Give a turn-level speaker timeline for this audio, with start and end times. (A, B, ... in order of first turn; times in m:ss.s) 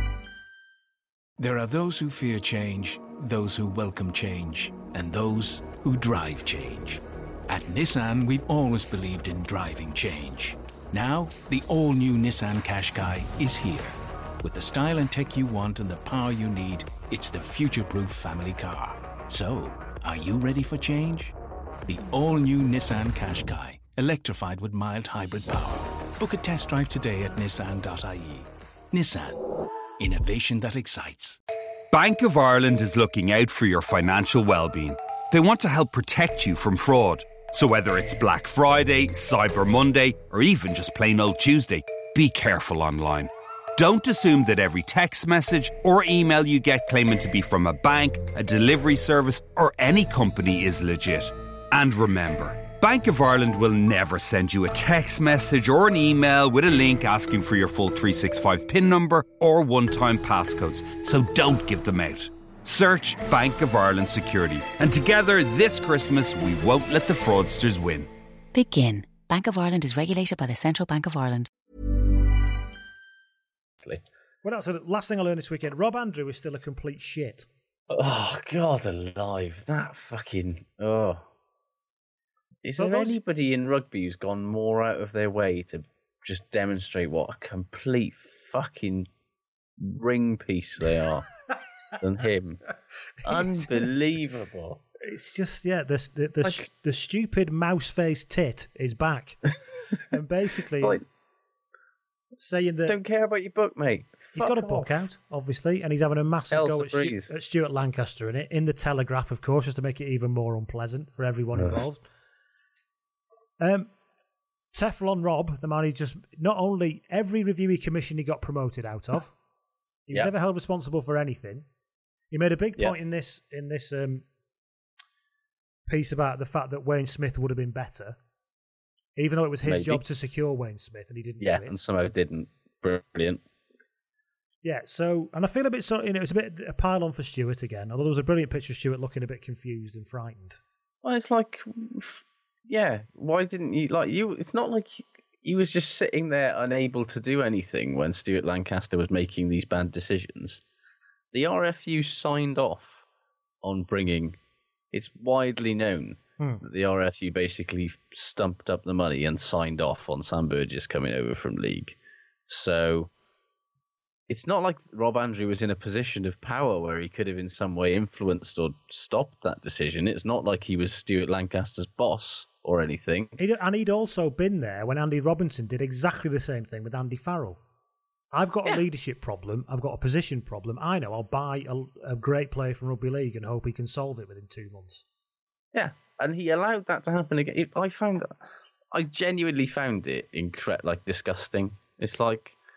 0:01.4-0:21.3 A
0:21.8-0:29.4 A
0:30.0-0:31.4 A
0:31.9-1:08.1 B
1:08.5-1:11.5 C
1:14.4-1:17.5 D
1:17.9-1:21.2 E
1:22.6-1:29.1 E
1:22.8-1:23.2 D
1:29.8-1:31.3 E
1:32.0-1:32.6 E
1:33.2-1:34.8 E
1:33.3-1:33.8 D
1:35.0-1:39.5 D
1:40.1-1:41.0 D
1:40.7-1:41.0 E
1:42.4-1:43.0 D
1:42.8-1:44.9 E
1:44.3-1:52.0 D
1:46.5-1:47.3 E
1:53.6-1:53.9 D
1:54.7-1:59.3 D
2:00.1-2:01.6 D
2:02.3-2:04.2 D
2:05.9-2:08.2 D
2:09.2-2:11.8 D
2:09.6-2:10.0 E
2:11.4-2:13.4 E
2:14.6-2:20.6 D
2:21.0-2:30.6 E
2:31.3-2:33.0 E
2:33.6-2:34.4 E
2:34.9-2:43.1 E
2:44.3-2:53.4 E
2:53.4-2:57.6 D
2:58.3-3:05.0 D
3:05.7-3:08.4 E
3:08.9-3:12.6 E